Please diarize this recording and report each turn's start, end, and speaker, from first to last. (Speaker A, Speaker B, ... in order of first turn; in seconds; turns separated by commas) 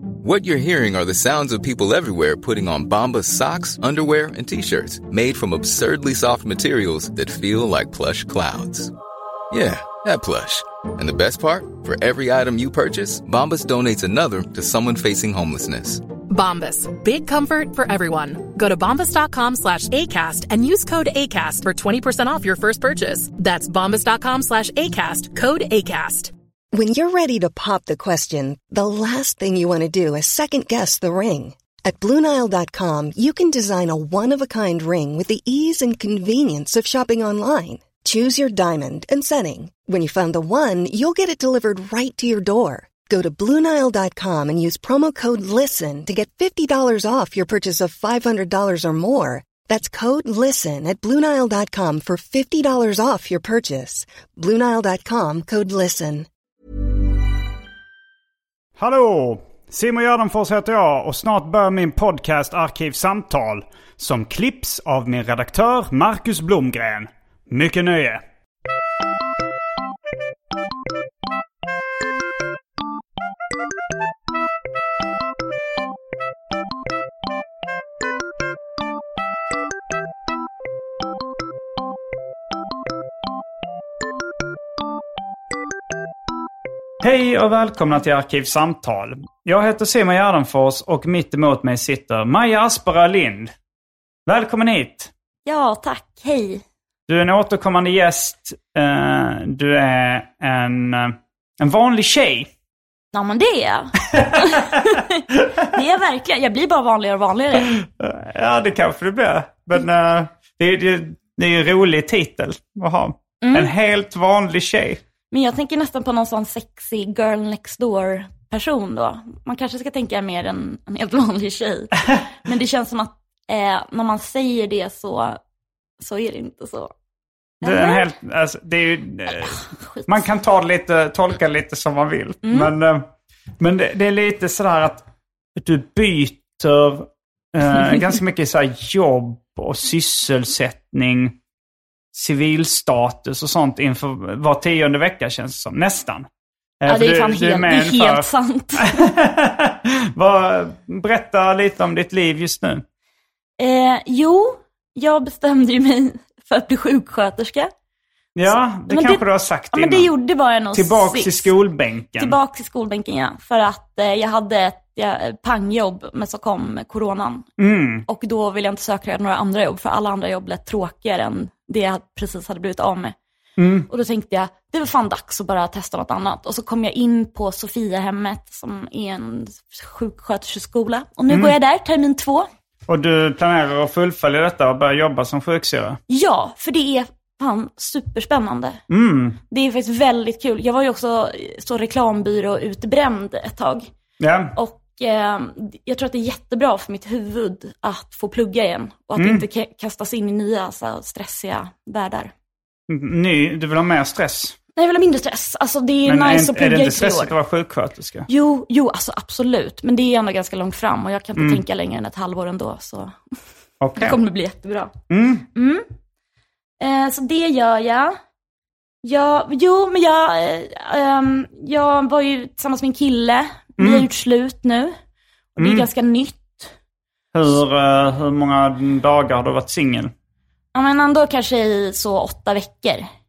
Speaker A: 0.2-8.9, Speaker A: 9.5-16.1, Speaker B: 16.3-26.3, Speaker C: 26.7-56.3, Speaker D: 58.8-68.2, Speaker D: 87.0-93.5, Speaker D: 94.3-95.1, Speaker E: 95.5-96.6, Speaker D: 97.1-102.5, Speaker E: 103.1-107.7, Speaker D: 104.1-104.9, Speaker D: 107.8-115.0, Speaker E: 113.4-113.7, Speaker E: 115.3-125.4, Speaker E: 126.0-126.9, Speaker E: 127.6-128.1, Speaker D: 127.6-133.1, Speaker E: 129.3-130.1, Speaker E: 132.4-132.7, Speaker D: 133.6-135.0, Speaker D: 135.6-141.4, Speaker D: 142.1-146.3, Speaker D: 146.8-152.8, Speaker E: 146.9-149.0, Speaker E: 153.6-157.7, Speaker D: 158.4-160.1, Speaker E: 158.9-161.5, Speaker D: 160.7-162.4, Speaker E: 162.2-167.5, Speaker D: 167.6-168.1, Speaker E: 168.1-173.2, Speaker D: 173.6-173.9, Speaker E: 173.9-182.5, Speaker D: 181.3-181.6, Speaker D: 182.9-186.0, Speaker E: 186.1-188.8, Speaker D: 188.9-189.4, Speaker E: 189.5-193.9, Speaker D: 194.2-194.5, Speaker E: 194.6-202.3, Speaker D: 199.2-199.4, Speaker D: 202.9-204.6, Speaker E: 204.8-207.3, Speaker D: 206.1-208.3, Speaker E: 208.3-213.2, Speaker D: 213.8-214.2, Speaker E: 214.0-214.9, Speaker D: 215.1-215.5, Speaker E: 215.6-215.9, Speaker E: 216.8-218.2, Speaker E: 219.0-224.9, Speaker D: 223.8-224.1, Speaker E: 225.6-226.7, Speaker D: 225.6-225.9, Speaker D: 227.3-230.1, Speaker E: 230.7-233.1